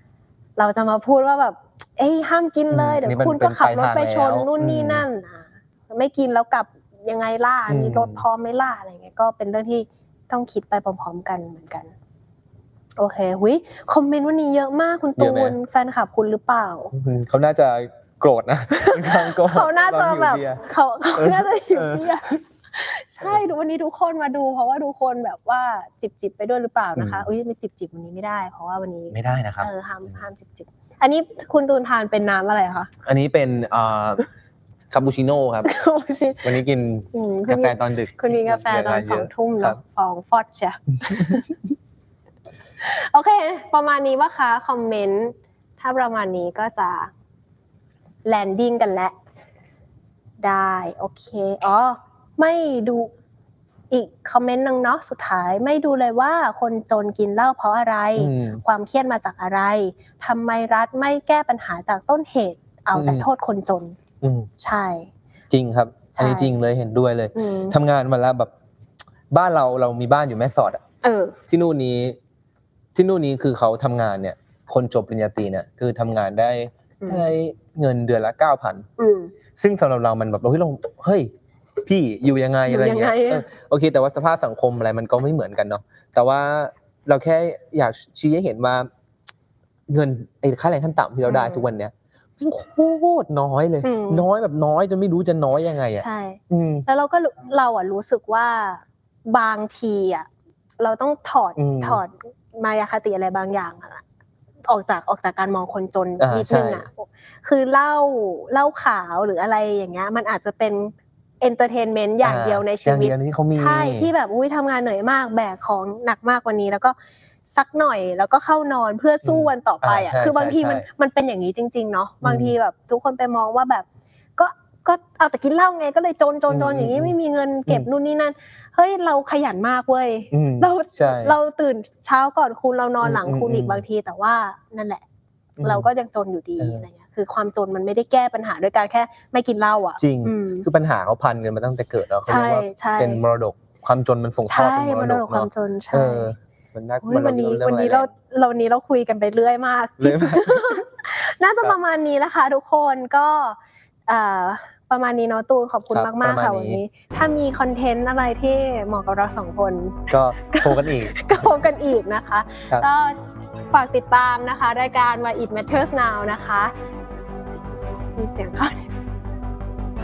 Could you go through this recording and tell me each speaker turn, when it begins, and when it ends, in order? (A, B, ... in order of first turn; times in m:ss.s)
0:00.6-0:11.9 A
0:02.7-0:05.0 B
0:07.7-0:08.2 B
0:13.0-0:16.9 A
0:15.2-0:15.6 B
0:16.9-0:20.6 B
0:18.8-0:32.9 A
0:21.2-0:22.4 B
0:23.2-0:23.4 B
0:27.0-0:27.3 B
0:29.1-0:30.2 B
0:33.0-0:34.3 B
0:34.9-0:35.7 B
0:35.6-0:36.6 A
0:36.4-0:39.8 B
0:37.1-0:41.5 A
0:41.1-0:41.4 B
0:42.8-0:47.1 A
0:48.2-0:49.2 A
0:50.4-0:53.1 A
0:53.9-1:04.0 A
0:58.2-0:58.6 B
1:02.9-1:03.3 B
1:04.2-1:04.5 B
1:04.6-1:05.1 A
1:05.5-1:08.5 B
1:06.1-1:06.5 A
1:07.4-1:07.7 A
1:09.3-1:10.8 B
1:11.0-1:11.4 A
1:11.5-1:12.2 B
1:13.0-1:18.9 B
1:17.0-1:17.3 A
1:19.0-1:19.3 A
1:19.6-1:21.3 B
1:21.8-1:28.9 B
1:22.7-1:23.5 A
1:29.9-1:36.9 B
1:31.3-1:31.6 A
1:33.8-1:34.3 A
1:36.0-1:40.3 A
1:40.8-1:44.0 A
1:41.6-1:42.0 B
1:44.7-1:57.0 A
1:46.2-1:46.9 B
1:52.2-1:54.1 B
1:57.5-2:03.9 A
1:59.2-2:00.9 B
2:02.2-2:02.6 B
2:04.4-2:15.0 A
2:06.5-2:07.1 B
2:10.3-2:11.4 B
2:13.0-2:13.8 B
2:15.6-2:15.9 B
2:15.6-2:20.7 A
2:16.6-2:16.9 B
2:20.0-2:28.1 B
2:22.3-2:23.2 A
2:24.5-2:26.3 A
2:27.0-2:33.6 A
2:30.0-2:30.8 B
2:34.1-2:43.2 A
2:35.9-2:36.8 B
2:40.1-2:41.4 B
2:43.7-2:46.7 A
2:48.1-2:49.0 A